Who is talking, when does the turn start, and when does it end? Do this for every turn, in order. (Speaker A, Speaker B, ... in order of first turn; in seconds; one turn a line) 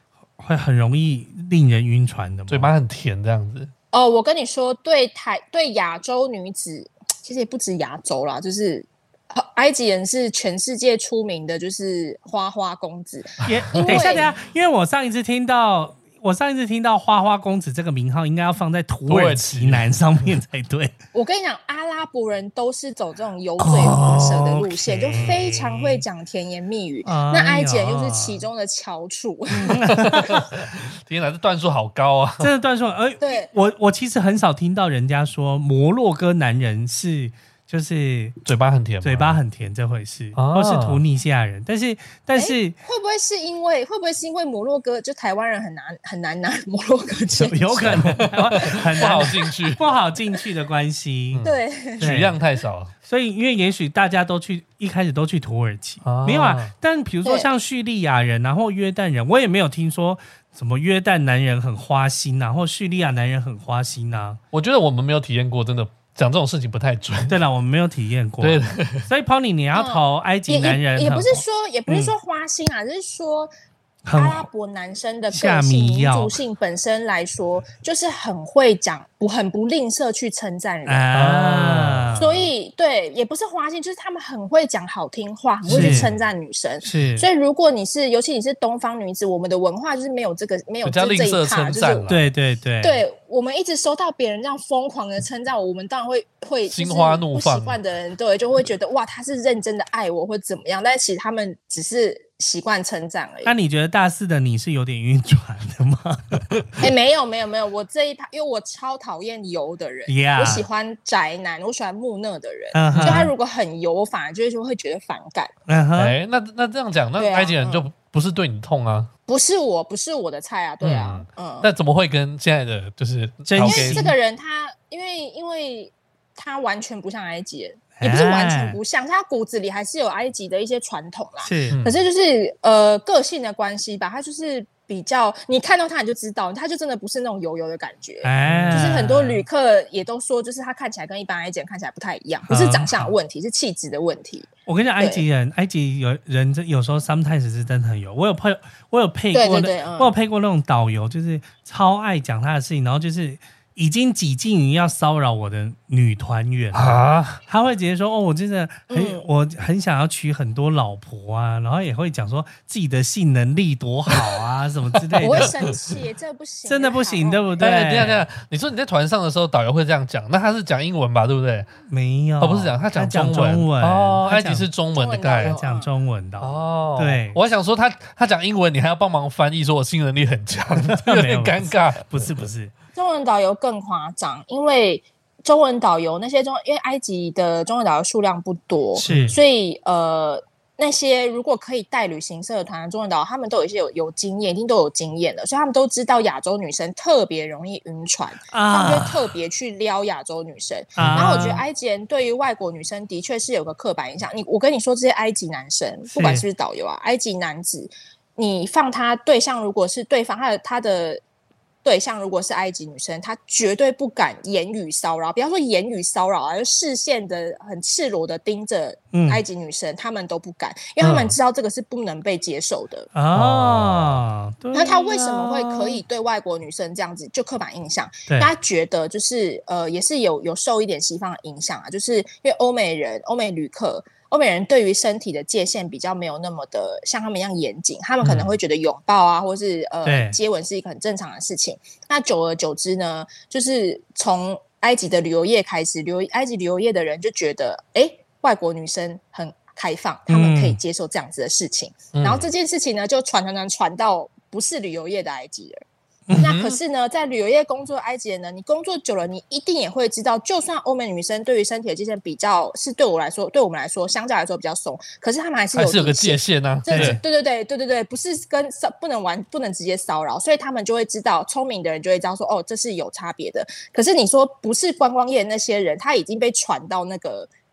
Speaker A: 0.4-2.7
Speaker B: 2.5-3.7
Speaker C: 3.9-14.3
Speaker A: 13.4-20.9
Speaker B: 13.8-14.2
Speaker B: 19.1-19.9
Speaker C: 21.1-29.9
Speaker A: 23.6-26.0
Speaker B: 25.1-25.4
Speaker A: 27.0-28.4
Speaker A: 29.6-30.1
Speaker B: 29.8-32.5
Speaker A: 32.4-38.4
Speaker C: 33.2-33.5
Speaker B: 38.4-39.4
Speaker A: 39.0-42.7
Speaker B: 40.3-41.0
Speaker C: 42.3-49.5
Speaker A: 47.4-51.4
Speaker B: 47.8-49.9
Speaker B: 51.3-52.9
Speaker C: 51.4-52.0
Speaker A: 52.0-52.3
Speaker A: 53.0-64.4
Speaker B: 56.0-56.7
Speaker B: 64.5-67.4
Speaker A: 67.3-72.1
Speaker B: 68.4-69.0
Speaker C: 69.7-73.5
Speaker A: 74.0-74.5
Speaker C: 74.1-81.0
Speaker A: 75.3-76.4
Speaker A: 80.8-82.2
Speaker B: 81.1-82.5
Speaker C: 82.2-92.1
Speaker B: 85.6-86.2
Speaker A: 85.7-86.1
Speaker A: 86.8-87.3
Speaker B: 90.8-92.2
Speaker A: 92.1-93.0
Speaker C: 92.8-103.5
Speaker B: 96.7-97.8
Speaker A: 103.4-106.5
Speaker C: 106.8-115.5
Speaker A: 110.1-110.7
Speaker A: 112.7-113.3
Speaker B: 112.9-113.3
Speaker A: 115.7-116.1
Speaker B: 116.0-119.1
Speaker C: 117.2-117.8
Speaker C: 119.3-121.7
Speaker B: 120.8-124.1
Speaker A: 123.4-124.1
Speaker C: 123.6-145.2
Speaker A: 128.0-128.8
Speaker A: 131.4-131.8
Speaker B: 131.7-132.0
Speaker A: 138.2-139.4
Speaker B: 138.4-139.0
Speaker A: 142.5-143.1
Speaker A: 144.7-165.5
Speaker C: 149.3-150.1
Speaker B: 156.7-157.4
Speaker C: 158.9-159.2
Speaker B: 164.1-164.4
Speaker B: 165.2-165.4
Speaker C: 165.2-168.0
Speaker A: 166.7-168.2
Speaker B: 167.6-171.7
Speaker A: 171.9-174.7
Speaker B: 172.4-175.6
Speaker C: 174.9-175.9
Speaker A: 175.4-177.4
Speaker B: 176.4-182.4
Speaker A: 181.0-182.7
Speaker C: 182.9-211.2
Speaker B: 188.9-189.3
Speaker A: 189.0-189.3
Speaker A: 198.5-199.3
Speaker B: 201.0-201.5
Speaker A: 201.0-201.6
Speaker A: 206.1-206.4
Speaker C: 211.8-223.1
Speaker A: 219.1-219.4
Speaker B: 221.0-221.3
Speaker A: 223.1-226.0
Speaker B: 223.3-224.2
Speaker C: 224.7-255.8
Speaker A: 240.0-240.4
Speaker A: 250.3-250.8
Speaker B: 252.1-252.5
Speaker B: 256.3-256.8
Speaker C: 256.4-277.5
Speaker B: 265.7-267.2
Speaker A: 266.9-267.2